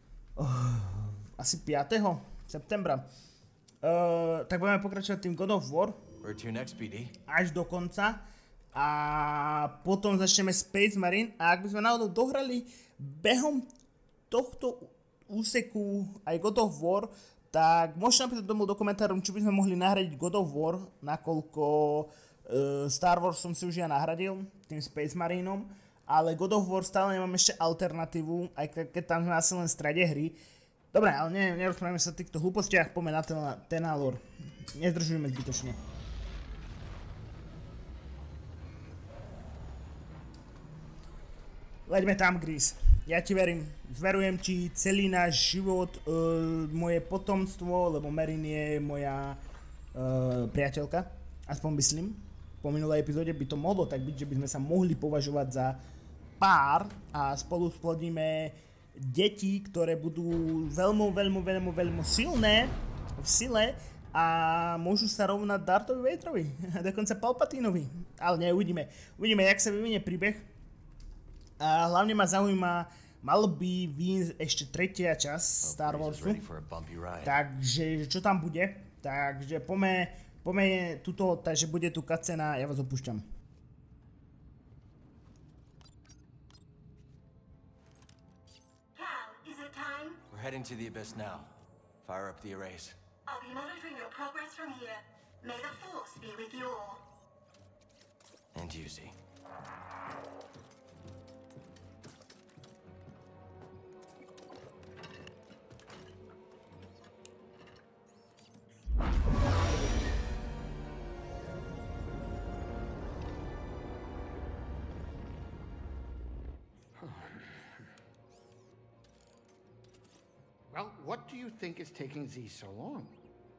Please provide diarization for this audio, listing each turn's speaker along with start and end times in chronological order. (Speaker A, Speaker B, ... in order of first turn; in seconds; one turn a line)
Speaker A: 0.4-3.1
Speaker A: 3.8-6.0
Speaker B: 6.2-7.2
Speaker A: 7.3-8.2
Speaker A: 8.7-13.7
Speaker A: 14.3-30.4
Speaker A: 30.9-34.2
Speaker A: 34.7-35.8
Speaker A: 41.9-49.4
Speaker A: 49.9-55.8
Speaker A: 56.4-70.5
Speaker A: 71.6-76.4
Speaker B: 75.6-77.4
Speaker A: 77.2-83.2
Speaker C: 88.9-90.2
Speaker B: 90.3-91.5
Speaker B: 92.0-93.0
Speaker C: 93.3-97.0
Speaker B: 98.5-99.1
Speaker D: 117.0-117.6
Speaker D: 120.7-123.2